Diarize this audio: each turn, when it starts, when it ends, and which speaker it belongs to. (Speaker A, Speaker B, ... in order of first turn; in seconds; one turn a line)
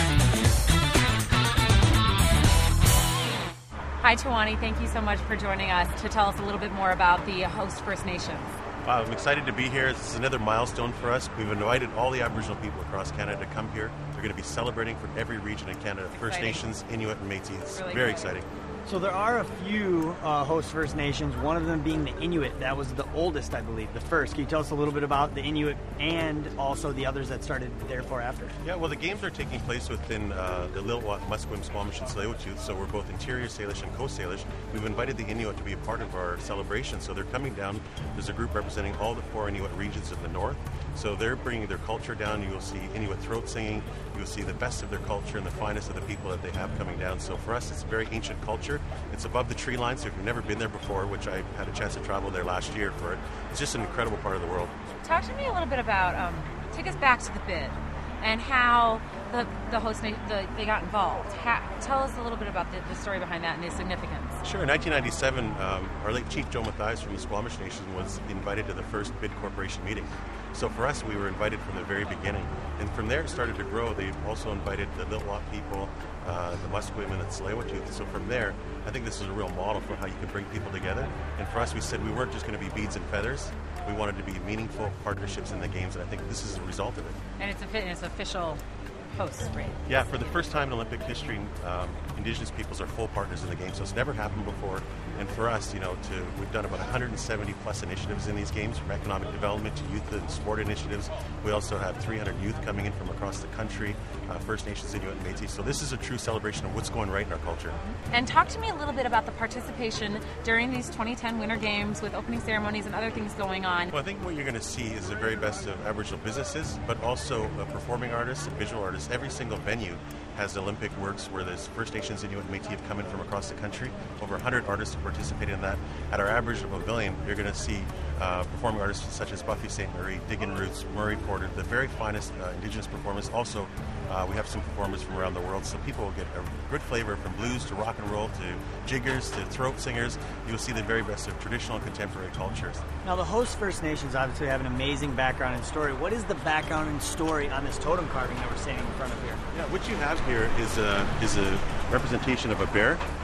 Speaker A: 4.0-8.6
Speaker B: 8.8-18.5
Speaker A: 16.1-16.7
Speaker A: 17.7-18.4
Speaker C: 18.9-28.6
Speaker B: 28.6-54.7
Speaker A: 55.0-64.4
Speaker B: 64.4-87.2
Speaker A: 87.4-89.8
Speaker B: 89.9-107.8
Speaker A: 107.8-113.9
Speaker B: 113.9-142.8
Speaker C: 143.0-149.4
Speaker B: 149.5-153.0